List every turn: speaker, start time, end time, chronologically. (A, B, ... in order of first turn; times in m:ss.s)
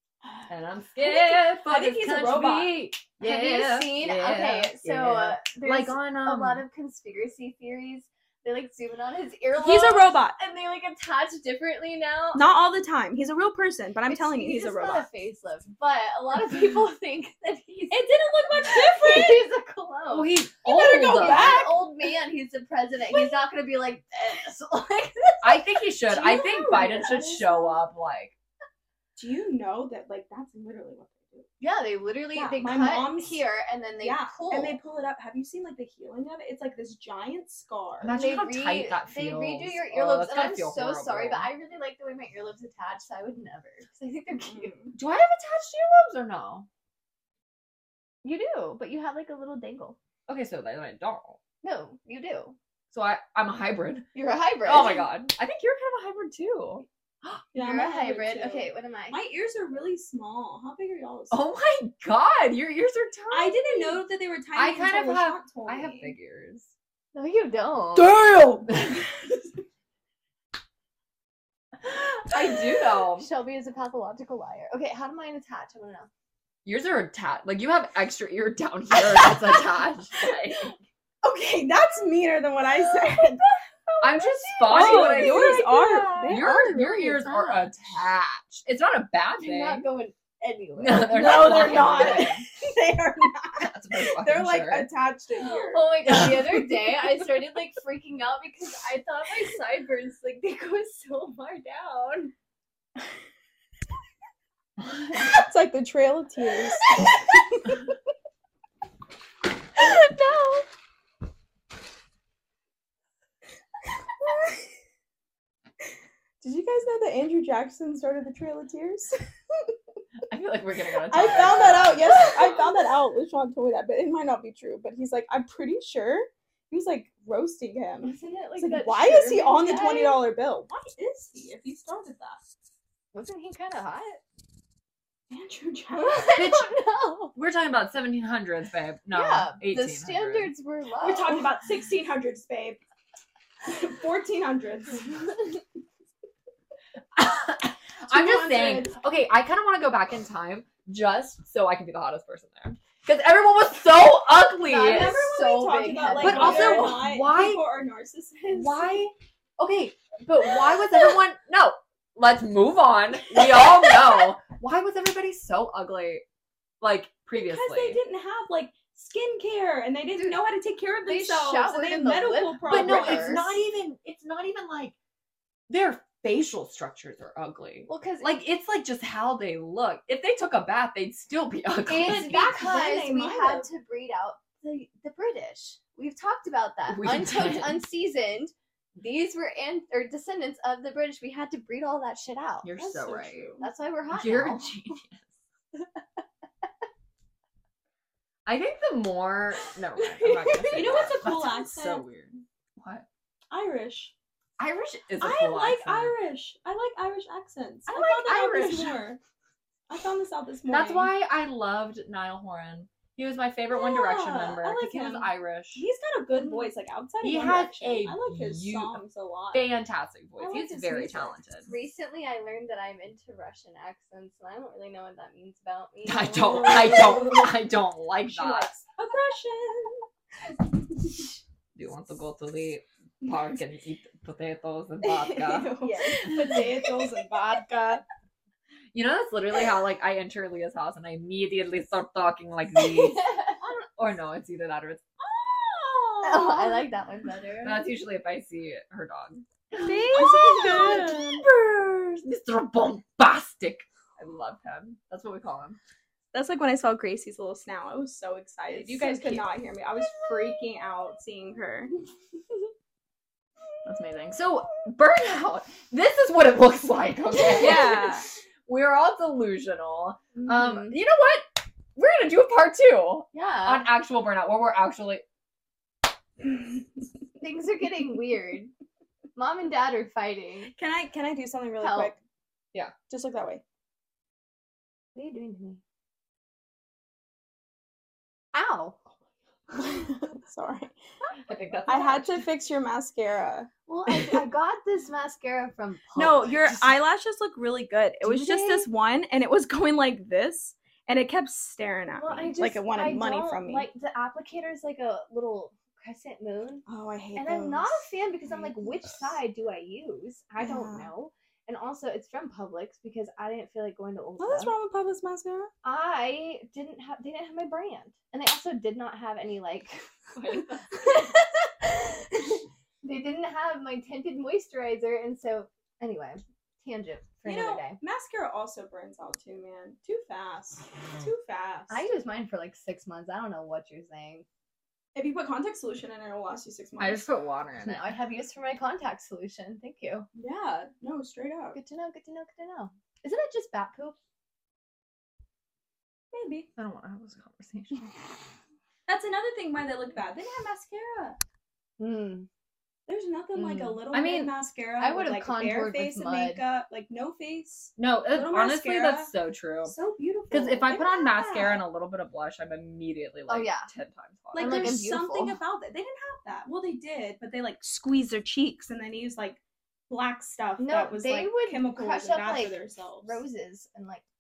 0:00.5-0:06.6 A
0:01.0-0:02.8 B
0:03.2-0:12.5 C
0:09.6-0:10.4 B
0:12.3-0:15.1 B
0:14.1-0:25.6 C
0:17.9-0:19.4 B
0:20.1-0:21.7 A
0:20.6-0:21.9 B
0:25.4-0:28.4 A
0:26.1-0:27.5 B
0:29.2-0:31.5 B
0:31.6-0:34.8 C
0:32.3-0:33.4 B
0:34.0-0:38.2 B
0:38.0-0:41.5 A
0:38.1-0:44.8 C
0:44.4-0:44.9 B
0:45.0-0:46.7 A
0:48.2-0:50.0 C
0:50.3-0:51.4 A
0:51.6-0:52.6 C
0:52.9-0:54.1 A
0:54.1-0:55.1 C
0:54.6-0:57.4 A
0:57.5-1:01.4 B
0:57.6-0:59.2 C
1:01.3-1:04.0 A
1:03.3-1:06.2 B
1:04.6-1:06.7 A
1:07.1-1:08.2 C
1:08.0-1:09.0 B
1:12.3-1:13.3 A
1:13.2-1:16.1 C
1:16.6-1:20.8 A
1:21.2-1:27.5 B
1:24.0-1:29.9 A
1:24.6-1:27.6 C
1:29.4-1:32.4 C
1:30.8-1:32.5 A
1:31.1-1:36.0 B
1:33.6-1:34.9 A
1:35.4-1:42.3 C
1:36.1-1:36.5 A
1:45.1-1:47.8 B
1:49.8-1:50.4 B
1:54.2-1:54.6 B
1:56.4-1:59.7 B
2:00.3-2:02.5 A
2:01.1-2:12.4 B
2:08.0-2:10.2 C
2:13.1-2:14.2 C
2:15.3-2:16.5 B
2:16.0-2:17.4 C
2:16.4-2:16.8 A
2:17.3-2:20.5 A
2:19.1-2:21.5 C
2:21.0-2:22.8 B
2:23.6-2:25.5 B
2:27.2-2:35.2 A
2:28.1-2:29.0 B
2:34.7-2:37.0 C
2:34.8-2:39.0 B
2:36.2-2:37.6 A
2:38.5-2:46.2 A
2:43.6-2:44.1 C
2:46.8-2:48.0 A
2:47.3-2:53.4 B
2:51.1-2:53.6 C
2:52.7-2:55.0 A
2:55.7-3:02.4 A
2:57.9-2:58.3 C
3:01.9-3:12.7 C
3:01.9-3:03.7 B
3:06.9-3:07.8 A
3:12.6-3:13.5 A
3:12.8-3:13.7 B
3:13.6-3:14.8 C
3:14.1-3:15.3 A
3:18.5-3:23.1 A
3:20.0-3:21.1 C
3:20.7-3:22.0 B
3:23.5-3:24.1 B
3:24.6-3:26.2 A
3:25.2-3:29.2 B
3:27.9-3:29.0 A
3:29.9-3:31.1 B
3:30.7-3:35.9 A
3:33.7-3:39.7 B
3:36.4-3:36.7 C
3:37.2-3:41.7 A
3:40.4-3:41.4 B
3:41.7-3:46.9 C
3:46.0-3:48.7 A
3:46.3-3:47.7 B
3:48.3-3:50.1 B
3:51.8-3:55.8 A
3:55.0-3:56.6 C
3:55.7-3:58.0 B
3:58.9-4:05.0 A
4:03.0-4:03.8 C
4:05.2-4:06.8 B
4:06.2-4:07.9 C
4:07.6-4:09.5 A
4:09.8-4:11.2 C
4:09.8-4:11.4 B
4:10.1-4:15.8 A
4:16.3-4:21.9 B
4:18.7-4:19.4 C
4:23.8-4:35.2 A
4:27.4-4:28.3 B
4:30.4-4:31.0 C
4:33.3-4:33.9 C
4:37.4-4:38.7 C
4:39.4-4:40.7 C
4:40.8-4:42.2 B
4:41.8-4:42.1 C
4:43.1-4:43.6 B
4:45.2-4:45.8 C
4:48.5-4:49.0 C
4:49.8-4:50.9 B
4:51.5-4:52.4 A
4:51.9-4:53.7 B
4:53.9-4:56.7 C
4:56.2-5:03.9 B
4:58.2-4:58.9 C
5:02.2-5:06.8 C
5:06.9-5:08.1 B
5:07.4-5:14.7 C
5:10.6-5:11.1 B
5:14.4-5:15.7 B
5:15.8-5:21.4 C
5:20.4-5:20.9 A
5:23.0-5:28.0 C
5:27.5-5:32.0 B
5:31.9-5:34.4 C
5:35.2-5:37.3 B
5:37.0-5:38.1 A
5:37.8-5:40.3 C
5:40.4-5:41.8 B
5:41.7-5:44.2 C
5:46.3-5:46.7 B
5:46.8-5:48.2 A
5:49.1-5:51.4 B
5:52.0-5:52.5 C
5:53.1-5:59.3 B
5:53.6-5:54.3 C
5:54.2-5:54.5 A
5:55.0-5:56.6 C
5:58.0-5:59.9 A
5:59.8-6:01.8 B
6:00.5-6:05.0 A
6:03.5-6:03.9 C
6:04.5-6:13.4 B
6:04.6-6:05.6 C
6:10.8-6:14.2 C